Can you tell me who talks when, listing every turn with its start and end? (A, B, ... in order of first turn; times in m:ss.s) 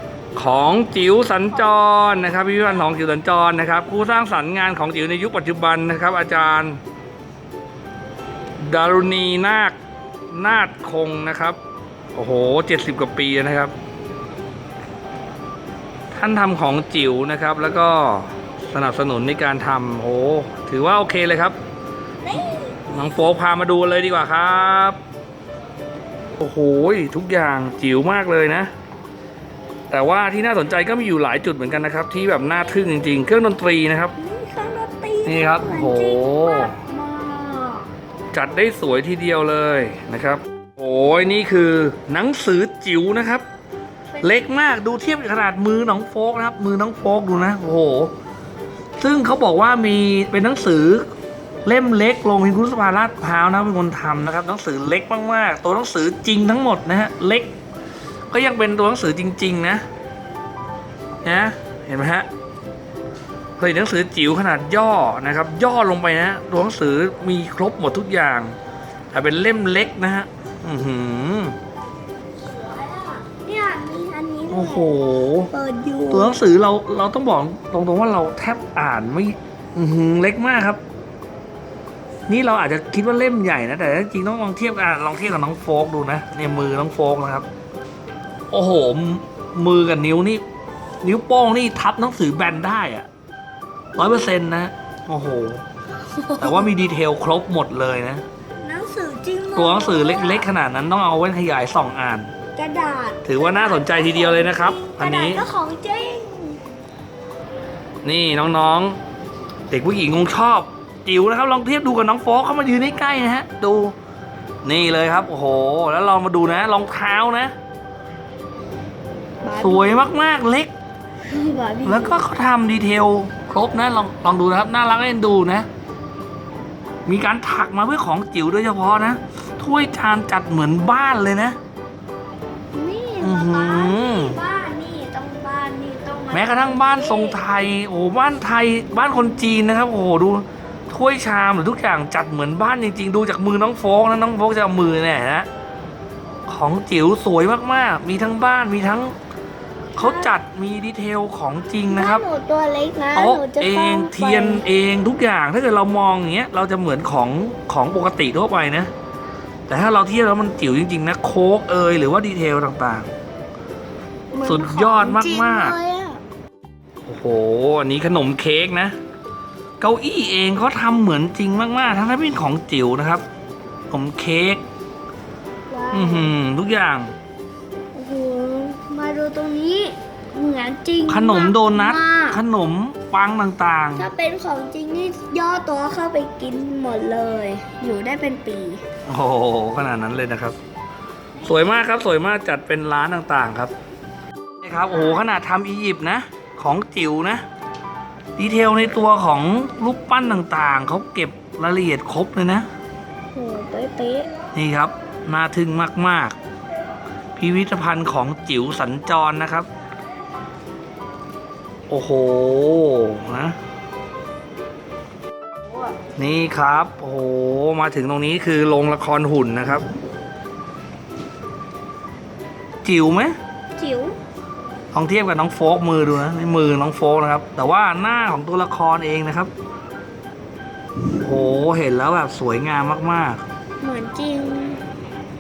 0:00.4-0:06.8 A
0:01.6-0:01.9 B
0:08.6-0:09.8 A
0:10.3-0:11.6 A
0:12.1-0:13.8 A
0:16.1-0:21.6 A
0:22.2-0:23.0 B
0:22.9-0:25.0 A
0:26.4-0:28.7 A
0:29.9-0:34.2 A
0:34.2-0:37.9 B
0:35.2-0:36.8 A
0:38.3-0:43.4 A
0:44.2-0:48.1 A
0:49.0-0:51.1 A
0:51.6-0:57.5 A
0:58.3-0:59.8 A
1:01.2-1:02.3 A
1:03.6-1:08.6 A
1:09.1-1:11.6 A
1:12.4-1:16.4 B
1:14.5-1:15.5 A
1:16.1-1:20.8 A
1:22.3-1:27.5 A
1:28.5-1:30.4 A
1:31.0-1:33.1 A
1:34.0-1:35.6 A
1:36.1-1:36.7 B
1:36.4-1:38.2 A
1:38.6-1:40.5 B
1:39.5-1:42.3 A
1:42.6-1:46.6 B
1:43.2-1:45.4 A
1:48.0-1:49.0 A
1:49.7-1:54.0 A
1:54.6-1:57.5 A
1:59.4-2:00.0 B
1:59.6-2:00.7 A
2:01.3-2:02.2 B
2:01.8-2:05.7 A
2:07.1-2:11.6 A
2:12.7-2:17.4 B
2:13.2-2:14.4 A
2:16.3-2:25.5 A
2:26.5-2:29.2 A
2:30.0-2:32.2 A
2:30.0-2:30.4 B
2:31.9-2:34.6 B
2:33.2-2:38.9 A
2:39.7-2:43.1 A
2:44.3-2:46.2 B
2:44.4-2:45.8 A
2:47.1-2:49.0 A
2:49.8-2:53.2 A
2:53.9-2:54.6 A
2:55.7-2:56.3 B
2:55.9-2:57.1 A
2:57.9-3:02.4 B
3:01.1-3:04.1 A
3:04.0-3:08.8 B
3:09.1-3:10.6 A
3:11.4-3:13.7 A
3:14.6-3:17.4 A
3:18.4-3:22.7 A
3:23.3-3:24.3 B
3:24.5-3:26.4 A
3:27.4-3:29.7 A
3:31.9-3:33.6 A
3:36.2-3:39.8 A
3:42.8-3:43.4 A
3:43.8-3:44.2 B
3:44.9-3:49.5 A
3:51.2-3:53.4 A
3:53.8-3:54.8 B